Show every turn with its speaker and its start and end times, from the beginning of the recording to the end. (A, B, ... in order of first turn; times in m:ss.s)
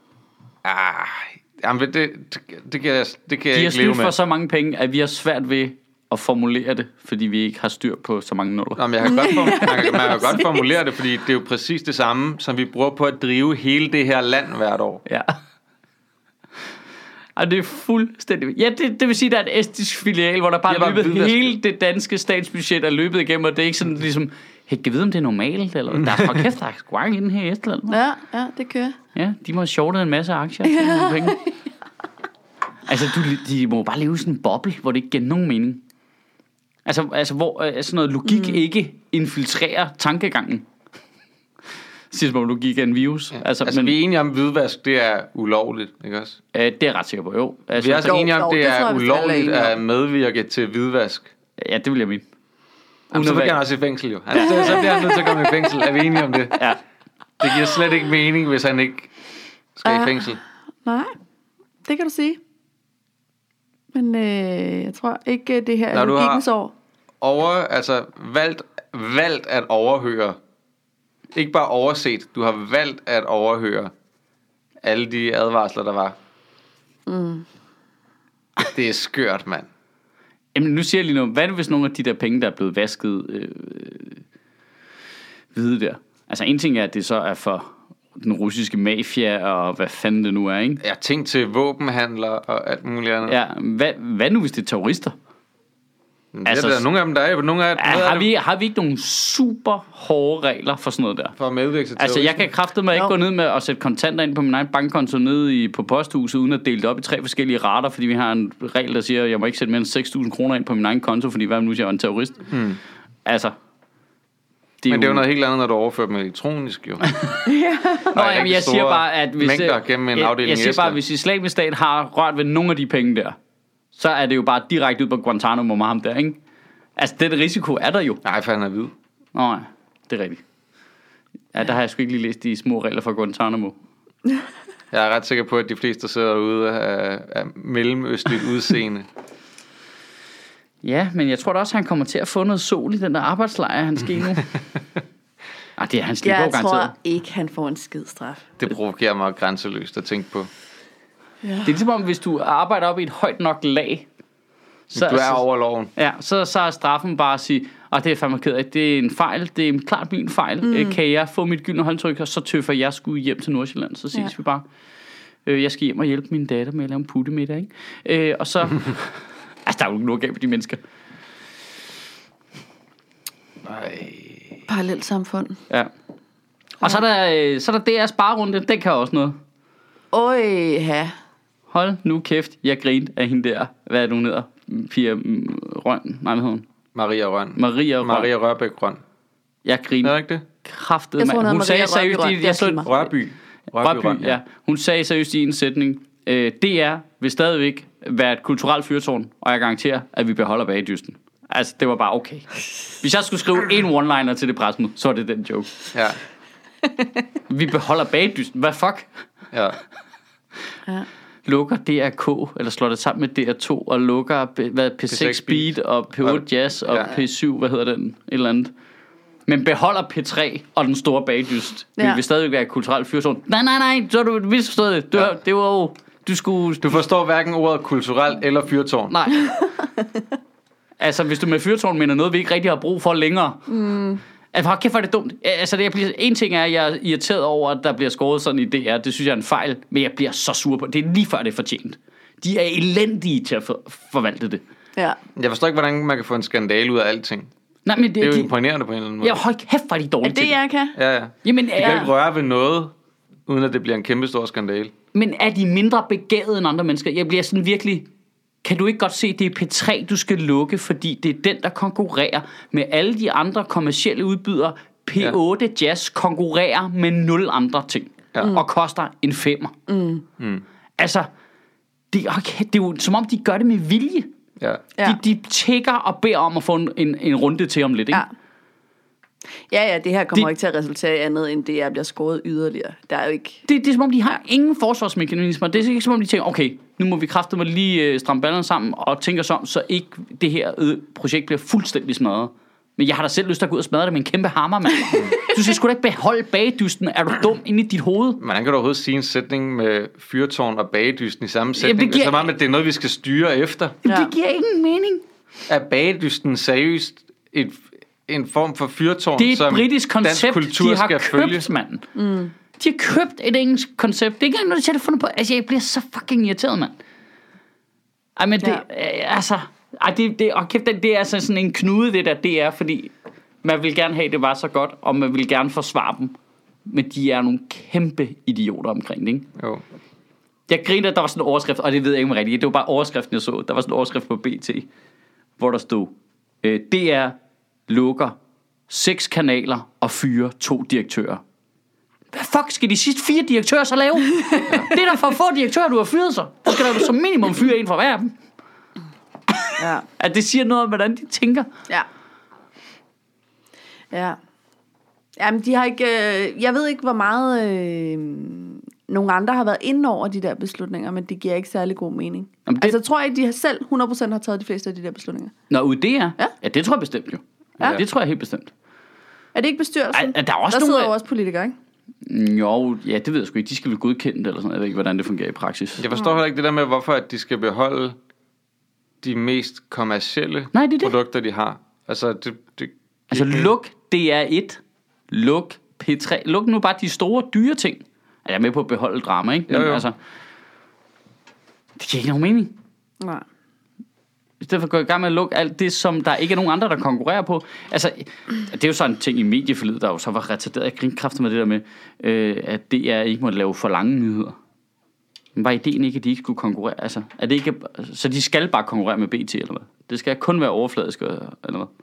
0:00.6-0:04.1 A
0:03.5-0:08.8 B
0:08.8-0:15.0 A
0:09.0-0:10.7 C
0:15.1-0:15.3 B
0:17.4-0:28.0 B
0:20.7-0:21.5 A
0:26.0-0:26.4 A
0:27.9-0:29.0 C
0:29.1-0:31.4 B
0:30.6-0:31.5 C
0:32.8-0:35.8 B
0:36.8-0:40.7 B
0:38.2-0:38.6 C
0:42.1-0:43.9 B
0:43.4-0:46.4 A
0:46.5-0:48.2 B
0:47.8-0:51.3 A
0:48.0-0:49.8 C
0:51.6-0:52.2 B
0:53.1-0:53.6 B
0:53.1-0:56.7 A
0:54.3-0:54.8 B
0:54.4-0:55.7 C
0:57.4-0:59.1 A
0:59.8-1:00.4 A
0:59.8-1:00.3 C
1:00.8-1:01.1 C
1:01.8-1:02.4 C
1:03.9-1:06.7 C
1:05.9-1:06.4 A
1:07.2-1:10.4 A
1:11.3-1:13.9 A
1:14.8-1:16.2 A
1:17.1-1:17.4 C
1:18.6-1:19.7 A
1:20.5-1:24.2 B
1:25.5-1:30.8 B
1:30.8-1:33.4 A
1:33.2-1:35.1 B
1:36.3-1:38.3 A
1:36.4-1:36.8 B
1:37.8-1:41.3 B
1:41.4-1:42.5 A
1:42.0-1:52.5 B
1:52.5-1:52.8 A
1:53.2-1:53.5 B
1:54.8-1:55.2 B
1:54.9-1:57.0 A
1:57.1-1:57.4 B
1:57.4-1:58.1 C
1:58.1-2:01.0 A
1:58.1-2:03.4 B
2:03.9-2:06.4 B
2:07.0-2:08.2 B
2:08.2-2:08.9 A
2:09.3-2:10.4 B
2:11.5-2:13.8 B
2:14.9-2:19.0 A
2:20.8-2:24.5 B
2:25.8-2:26.9 B
2:26.2-2:28.5 C
2:28.6-2:30.5 A
2:31.4-2:31.7 C
2:31.6-2:34.1 B
2:34.9-2:35.4 B
2:34.9-2:35.9 A
2:35.9-2:44.6 B
2:40.6-2:41.0 C
2:45.4-2:50.8 B
2:53.6-2:54.6 A
2:54.7-2:55.6 C
2:56.8-2:59.4 B
3:00.1-3:01.1 C
3:01.7-3:06.7 B
3:06.9-3:09.0 A
3:07.6-3:08.3 B
3:09.6-3:12.8 B
3:10.0-3:10.4 A
3:11.2-3:13.1 C
3:12.8-3:14.4 A
3:13.8-3:25.7 B
3:27.5-3:29.1 B
3:29.5-3:29.8 A
3:31.4-3:38.7 B
3:35.1-3:37.1 A
3:39.5-3:47.0 B
3:46.8-3:49.2 A
3:49.3-3:50.0 C
3:51.0-3:53.7 B
3:53.7-3:54.2 C
3:54.5-4:04.6 B
4:05.4-4:07.5 A
4:07.8-4:08.5 B
4:08.2-4:09.4 A
4:09.2-4:10.5 B
4:10.2-4:11.0 C
4:11.0-4:12.9 A
4:11.4-4:12.1 B
4:11.8-4:12.1 C
4:13.5-4:14.9 A
4:15.1-4:18.1 B
4:18.6-4:29.7 B
4:29.9-4:30.2 C
4:30.4-4:30.6 A
4:31.0-4:31.3 B
4:32.1-4:34.3 B
4:35.0-4:38.2 B
4:39.7-4:43.6 C
4:43.6-4:58.4 B
4:58.4-5:04.0 A
5:01.8-5:02.5 B
5:04.0-5:04.3 C
5:04.0-5:05.2 B
5:05.7-5:11.7 A
5:09.4-5:12.0 B
5:12.1-5:12.5 C
5:12.8-5:17.0 B
5:18.4-5:23.1 B
5:23.6-5:26.3 B
5:26.8-5:29.5 B
5:29.6-5:29.8 A
5:30.7-5:34.9 B
5:35.6-5:37.3 B
5:37.9-5:38.4 B
5:38.9-5:41.4 B
5:42.3-5:48.3 B
5:49.5-5:51.7 B
5:49.8-5:50.0 C
5:54.1-5:54.4 C
5:55.4-6:05.5 C
6:02.7-6:03.0 B
6:05.7-6:08.7 B
6:09.5-6:11.8 C
6:10.1-6:11.1 B
6:12.2-6:16.0 B
6:16.0-6:18.2 A
6:19.2-6:23.7 A
6:20.7-6:21.1 B
6:23.3-6:30.1 B
6:29.7-6:30.0 A
6:32.0-6:32.7 B
6:34.6-6:44.6 B
6:45.6-6:51.9 B